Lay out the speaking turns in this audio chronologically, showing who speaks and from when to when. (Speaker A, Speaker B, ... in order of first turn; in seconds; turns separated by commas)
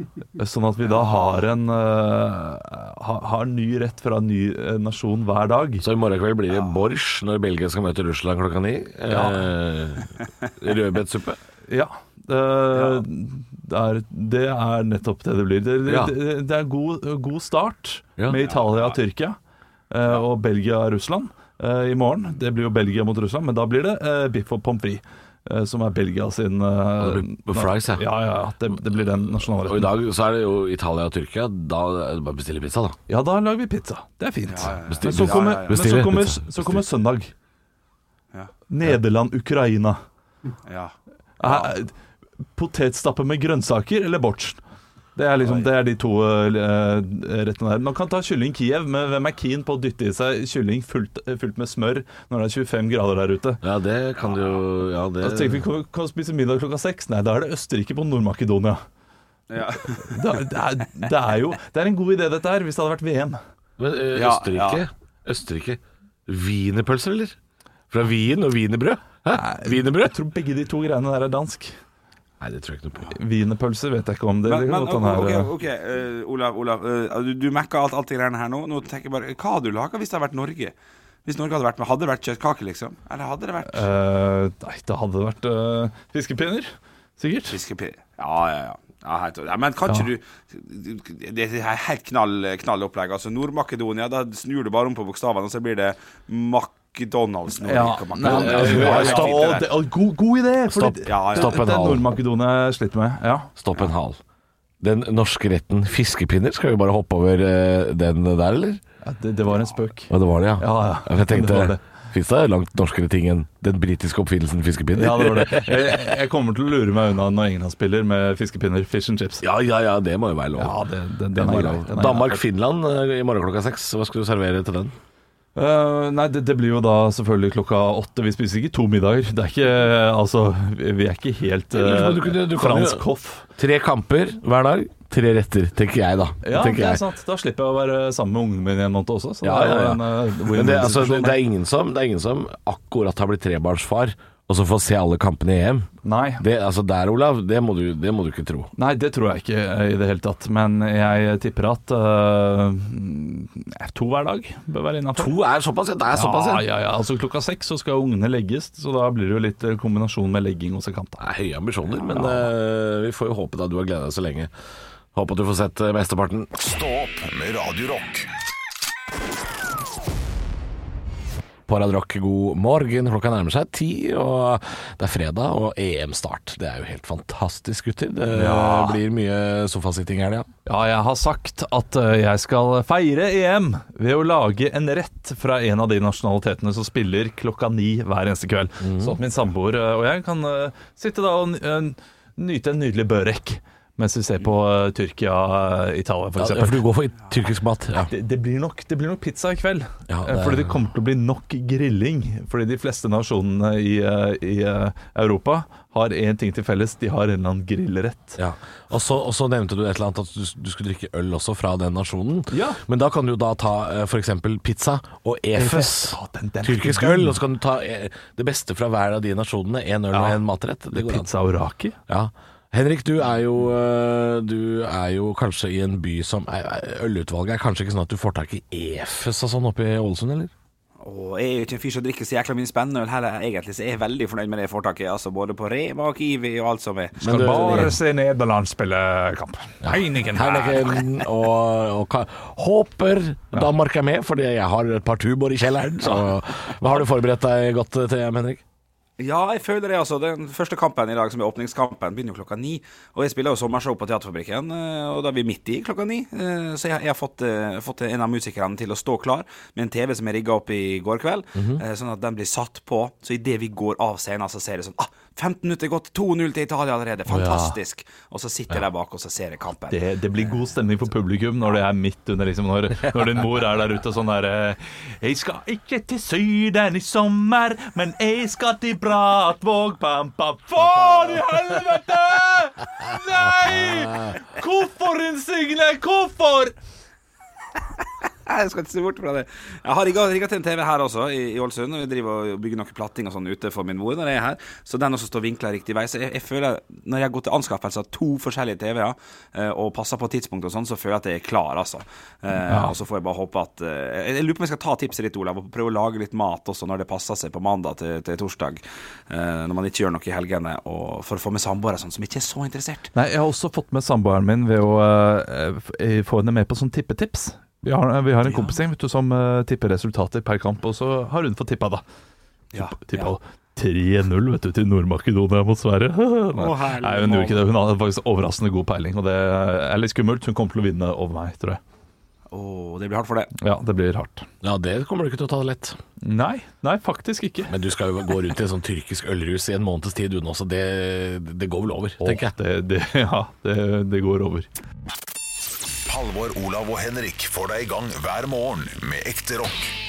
Speaker A: 0.3-5.8, Speaker B: 0.8-1.4, Speaker C: 5.8-11.4, Speaker A: 9.1-9.5, Speaker A: 11.7-19.4, Speaker B: 12.7-13.0, Speaker C: 15.8-16.1, Speaker B: 18.4-19.0, Speaker A: 19.9-29.9, Speaker C: 27.0-28.1, Speaker C: 29.6-33.0, Speaker A: 33.1-37.3, Speaker B: 34.5-35.9, Speaker C: 34.8-36.8, Speaker A: 38.7-40.0, Speaker B: 40.6-41.7, Speaker A: 41.4-41.9, Speaker A: 42.5-44.6, Speaker A: 45.1-53.6, Speaker B: 45.4-45.7, Speaker C: 53.6-55.6, Speaker A: 55.2-58.8, Speaker B: 59.5-60.2, Speaker A: 59.8-63.4, Speaker C: 63.8-67.3, Speaker B: 64.1-64.8, Speaker C: 67.9-70.1, Speaker A: 69.3-71.7, Speaker C: 72.4-73.1, Speaker A: 73.1-75.5, Speaker B: 74.4-80.7, Speaker B: 81.2-83.9, Speaker A: 83.7-87.6, Speaker B: 87.5-99.7, Speaker A: 97.6-103.5, Speaker C: 98.2-99.6, Speaker C: 100.7-102.1, Speaker B: 101.0-101.6, Speaker C: 103.6-104.2, Speaker C: 104.8-108.8, Speaker A: 109.0-111.8, Speaker C: 110.1-116.0, Speaker A: 114.9-119.4, Speaker C: 119.4-120.8, Speaker A: 120.6-122.4, Speaker C: 121.3-124.9, Speaker A: 125.5-133.4, Speaker C: 131.7-137.0, Speaker A: 136.4-141.4, Speaker C: 139.4-145.9, Speaker A: 146.0-146.4, Speaker C: 146.4-148.7, Speaker A: 148.8-155.3, Speaker C: 155.2-156.6, Speaker A: 156.1-161.2, Speaker C: 161.2-164.5, Speaker A: 162.1-162.4, Speaker C: 165.1-166.5, Speaker D: 166.5-168.3, Speaker C: 171.7-180.5, Speaker A: 178.3-179.0, Speaker A: 180.7-196.8, Speaker C: 188.8-189.2, Speaker C: 196.4-198.1, Speaker A: 198.0-208.4, Speaker C: 200.1-200.7, Speaker C: 208.4-221.3, Speaker A: 212.5-212.8, Speaker A: 215.6-217.4, Speaker A: 220.1-222.0, Speaker C: 222.1-230.5, Speaker B: 231.0-237.9, Speaker C: 237.2-238.0, Speaker A: 237.2-241.0, Speaker C: 239.8-248.6, Speaker B: 249.2-270.6, Speaker C: 261.6-261.8, Speaker A: 267.3-267.8, Speaker A: 269.9-286.7, Speaker B: 288.3-313.1, Speaker A: 302.7-302.9, Speaker A: 313.1-322.0, Speaker B: 318.4-318.8, Speaker B: 322.7-323.3, Speaker A: 322.8-331.8, Speaker B: 326.6-327.6, Speaker B: 332.5-333.5, Speaker A: 333.6-334.5, Speaker C: 334.6-336.0, Speaker A: 336.2-337.7, Speaker C: 337.7-342.5, Speaker A: 342.2-344.7, Speaker D: 346.1-349.9